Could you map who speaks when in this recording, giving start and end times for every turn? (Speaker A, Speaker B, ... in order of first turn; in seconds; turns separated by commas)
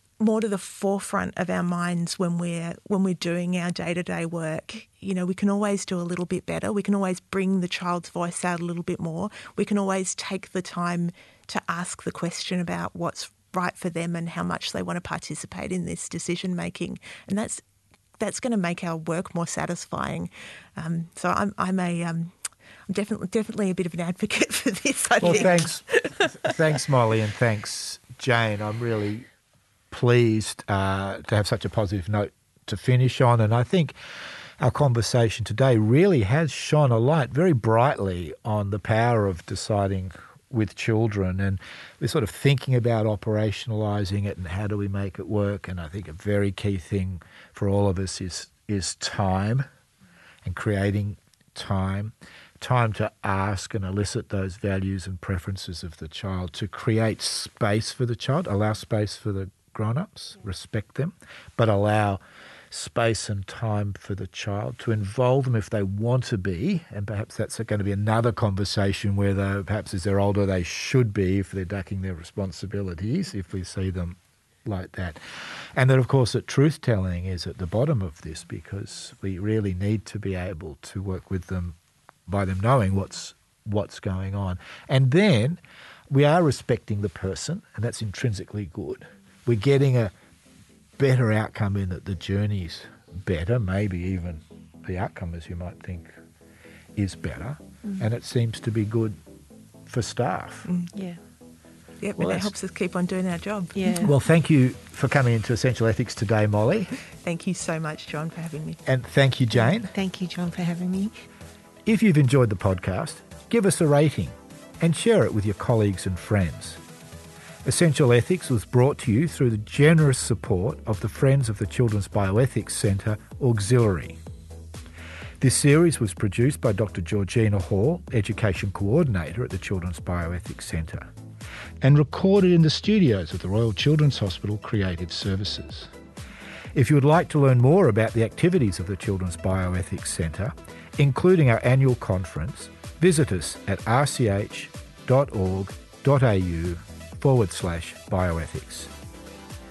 Speaker A: 0.2-17.6, Speaker A: 18.2-22.3, Speaker A: 22.9-26.3, Speaker B: 25.2-29.3, Speaker B: 29.9-34.0, Speaker B: 34.6-49.7, Speaker B: 50.5-62.2, Speaker B: 62.7-81.8, Speaker B: 82.3-85.6, Speaker B: 86.1-90.1, Speaker B: 91.0-96.1, Speaker B: 97.0-99.2, Speaker B: 99.9-100.7, Speaker A: 100.7-100.9, Speaker C: 100.9-101.2, Speaker A: 102.0-104.1, Speaker B: 102.2-102.5, Speaker C: 103.8-104.1, Speaker B: 104.0-106.9, Speaker A: 107.2-108.8, Speaker B: 108.9-109.9, Speaker C: 109.6-111.1, Speaker B: 111.9-116.8, Speaker B: 117.7-124.2, Speaker B: 125.4-131.1, Speaker B: 131.8-135.9, Speaker B: 136.7-148.9